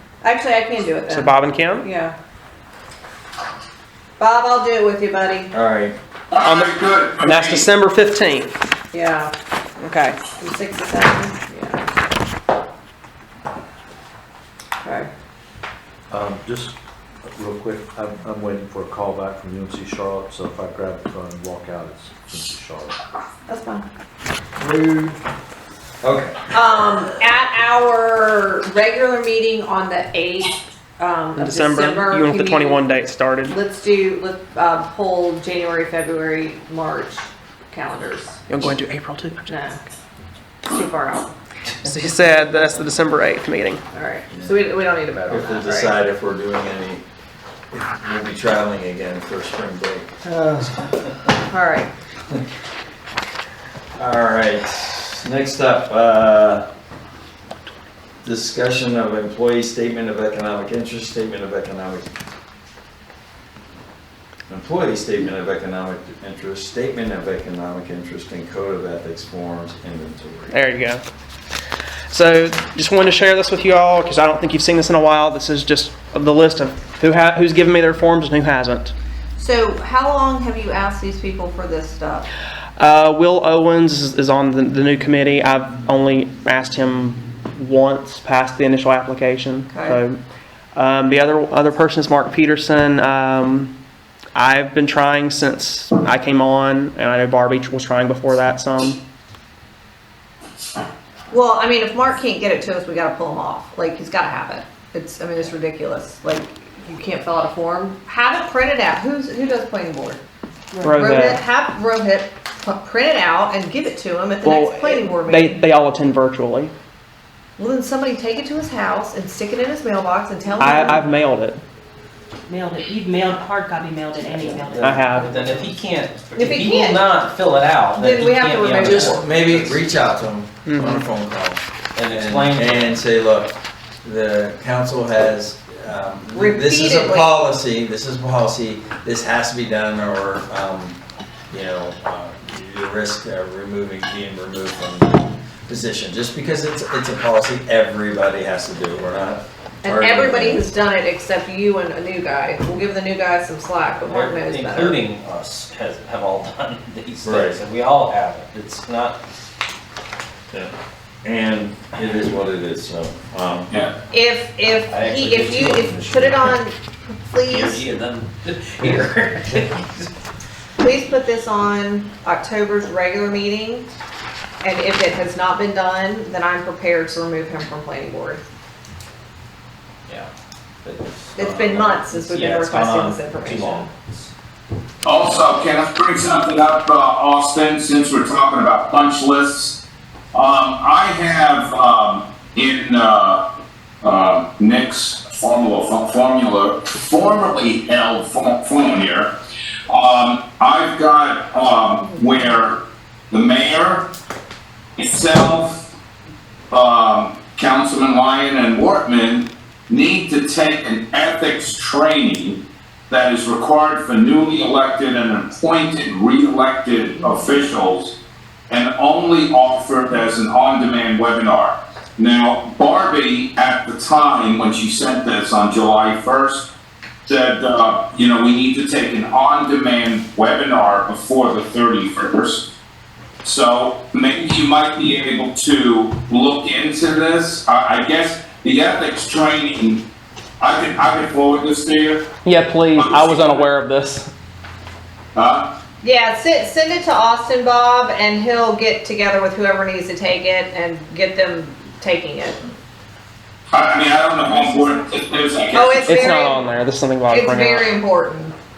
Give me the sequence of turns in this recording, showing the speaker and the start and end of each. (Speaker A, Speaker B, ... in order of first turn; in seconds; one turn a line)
Speaker A: 0.2-2.2
Speaker B: 1.1-1.9
Speaker A: 4.2-5.5
Speaker C: 5.5-6.0
Speaker D: 6.3-7.7
Speaker B: 6.4-8.5
Speaker A: 8.9-9.3
Speaker B: 9.8-10.2
Speaker A: 10.3-11.9
Speaker A: 14.8-15.1
Speaker E: 16.1-23.0
Speaker A: 23.5-23.9
Speaker C: 24.6-25.2
Speaker C: 26.0-26.4
Speaker A: 26.5-32.9
Speaker B: 31.4-33.6
Speaker A: 33.5-38.4
Speaker B: 38.5-39.5
Speaker A: 39.5-39.8
Speaker A: 40.7-41.4
Speaker B: 41.8-43.8
Speaker A: 43.9-45.9
Speaker C: 45.3-47.0
Speaker C: 47.7-50.1
Speaker B: 50.3-50.6
Speaker A: 51.5-51.9
Speaker C: 54.0-56.7
Speaker C: 58.2-62.1
Speaker C: 64.5-70.6
Speaker B: 70.5-71.0
Speaker B: 72.1-78.9
Speaker A: 79.4-82.3
Speaker B: 82.8-90.2
Speaker A: 89.7-90.0
Speaker B: 90.8-93.8
Speaker B: 94.3-99.0
Speaker A: 101.3-110.2
Speaker B: 110.8-111.4
Speaker A: 110.9-115.6
Speaker B: 114.4-116.7
Speaker A: 117.6-121.0
Speaker B: 120.6-121.6
Speaker F: 122.5-125.8
Speaker G: 124.2-129.8
Speaker B: 124.8-125.4
Speaker A: 126.3-127.1
Speaker A: 128.0-129.3
Speaker C: 128.8-141.0
Speaker B: 130.7-131.1
Speaker G: 131.9-133.0
Speaker A: 136.3-137.4
Speaker C: 141.5-150.7
Speaker A: 149.8-155.0
Speaker G: 154.1-159.2
Speaker C: 157.2-157.6
Speaker C: 161.2-163.7
Speaker D: 163.7-163.9
Speaker A: 164.1-167.9
Speaker G: 164.9-166.6
Speaker G: 167.5-170.1
Speaker A: 170.8-173.9
Speaker A: 174.6-178.4
Speaker G: 180.8-184.3
Speaker A: 181.4-183.9
Speaker D: 185.0-189.8
Speaker D: 190.3-193.4
Speaker D: 194.0-199.3
Speaker D: 199.9-204.1
Speaker D: 205.0-205.8
Speaker D: 206.7-218.2
Speaker D: 218.7-226.7
Speaker D: 227.2-232.7
Speaker D: 233.4-240.0
Speaker D: 240.6-242.3
Speaker B: 242.4-244.3
Speaker D: 242.9-243.7
Speaker D: 245.3-245.7
Speaker A: 246.0-252.6
Speaker D: 253.7-256.3
Speaker A: 255.7-256.6
Speaker B: 256.0-257.9
Speaker A: 257.3-258.5